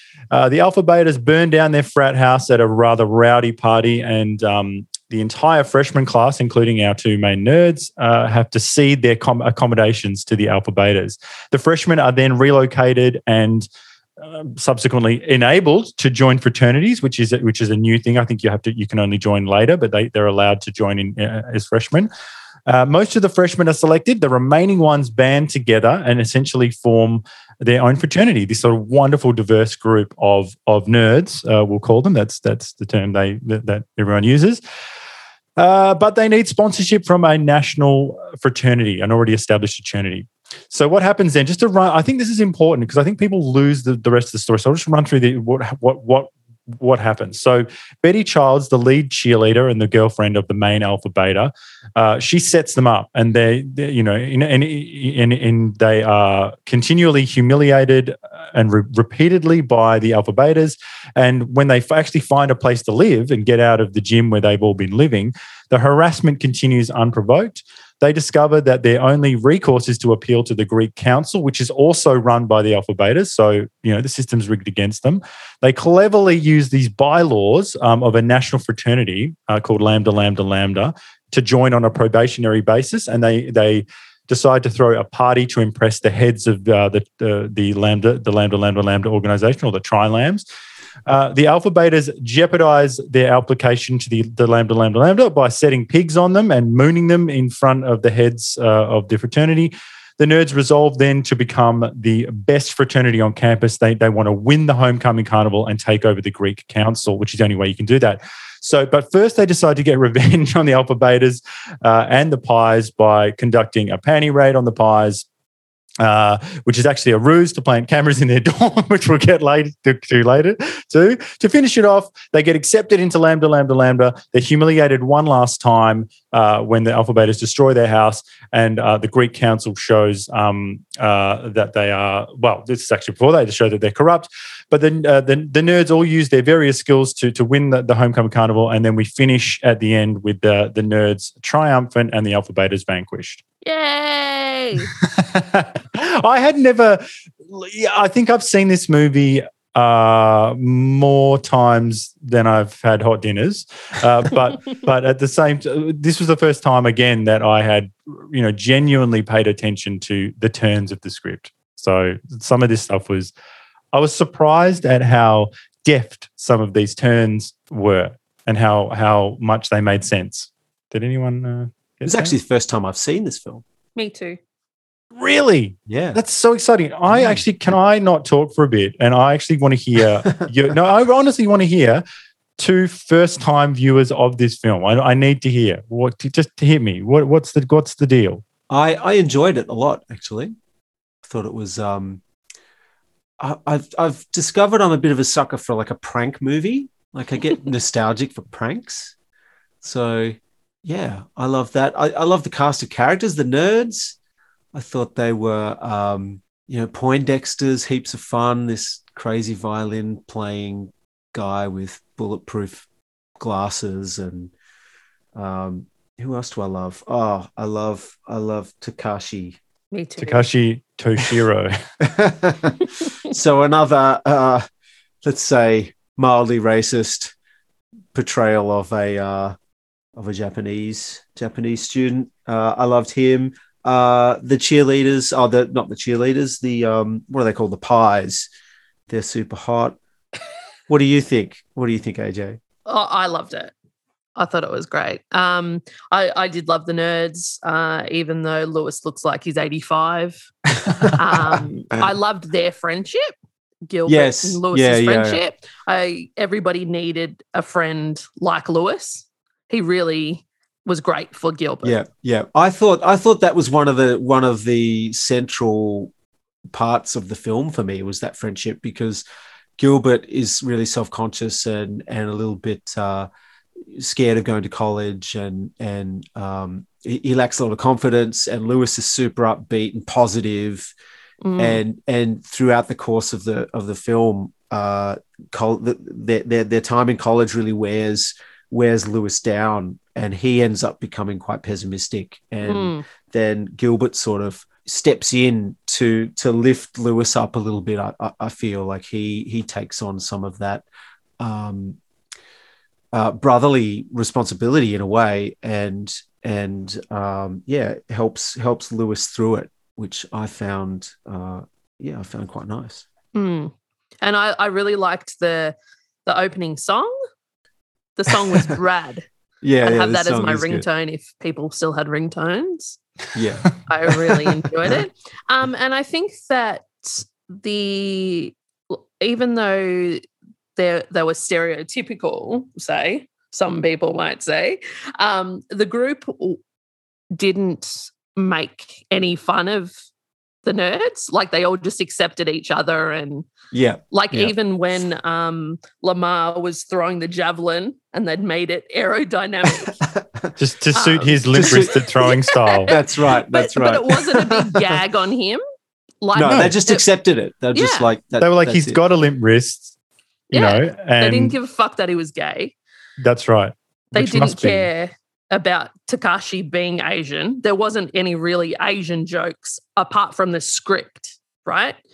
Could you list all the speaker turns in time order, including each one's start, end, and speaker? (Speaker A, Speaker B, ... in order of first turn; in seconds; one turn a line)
Speaker A: 0.3-13.7
Speaker A: 14.2-22.1
Speaker A: 22.7-34.6
Speaker A: 35.6-90.5
Speaker A: 91.1-115.2
Speaker A: 116.0-143.4
Speaker B: 143.6-144.9
Speaker A: 145.1-163.3
Speaker A: 163.9-172.4
Speaker C: 172.1-173.6
Speaker B: 174.0-174.4
Speaker A: 175.2-182.0
Speaker C: 175.9-176.2
Speaker C: 177.1-177.4
Speaker A: 182.6-188.4
Speaker C: 188.7-190.6
Speaker C: 191.2-192.2
Speaker C: 193.4-199.2
Speaker C: 199.8-204.2
Speaker C: 204.7-212.9
Speaker C: 213.4-214.5
Speaker C: 215.3-219.6
Speaker B: 219.9-220.5
Speaker A: 220.2-221.8
Speaker C: 222.0-224.7
Speaker C: 225.2-227.3
Speaker C: 228.1-229.6
Speaker C: 230.2-238.5
Speaker C: 239.1-240.0
Speaker C: 240.9-242.6
Speaker B: 242.9-243.7
Speaker B: 244.4-250.5
Speaker C: 250.8-252.0
Speaker B: 251.1-253.3
Speaker B: 253.9-262.0
Speaker C: 254.1-255.4
Speaker C: 261.8-266.1
Speaker C: 266.7-269.2
Speaker C: 269.8-273.3
Speaker C: 273.8-280.9
Speaker B: 281.4-281.8
Speaker C: 281.6-300.9
Speaker B: 292.6-293.1
Speaker C: 301.4-302.0
Speaker C: 303.1-313.1
Speaker B: 313.4-315.8
Speaker B: 316.3-317.1
Speaker B: 318.2-319.3
Speaker C: 318.3-318.8
Speaker C: 319.6-320.9
Speaker B: 319.8-323.0
Speaker C: 323.4-323.7
Speaker B: 323.9-330.2
Speaker C: 324.4-324.9
Speaker B: 330.8-336.6
Speaker B: 337.4-339.9
Speaker B: 340.6-343.5
Speaker C: 343.7-344.4
Speaker B: 344.1-350.0
Speaker C: 350.0-350.5
Speaker A: 350.6-352.9
Speaker B: 350.9-355.6
Speaker C: 351.5-352.0
Speaker C: 352.9-355.0
Speaker B: 356.2-357.1
Speaker C: 356.4-359.0
Speaker A: 356.4-356.8
Speaker B: 357.7-358.1
Speaker A: 358.4-359.9
Speaker A: 360.5-361.6
Speaker B: 360.5-362.8
Speaker A: 363.2-364.9
Speaker B: 364.1-372.0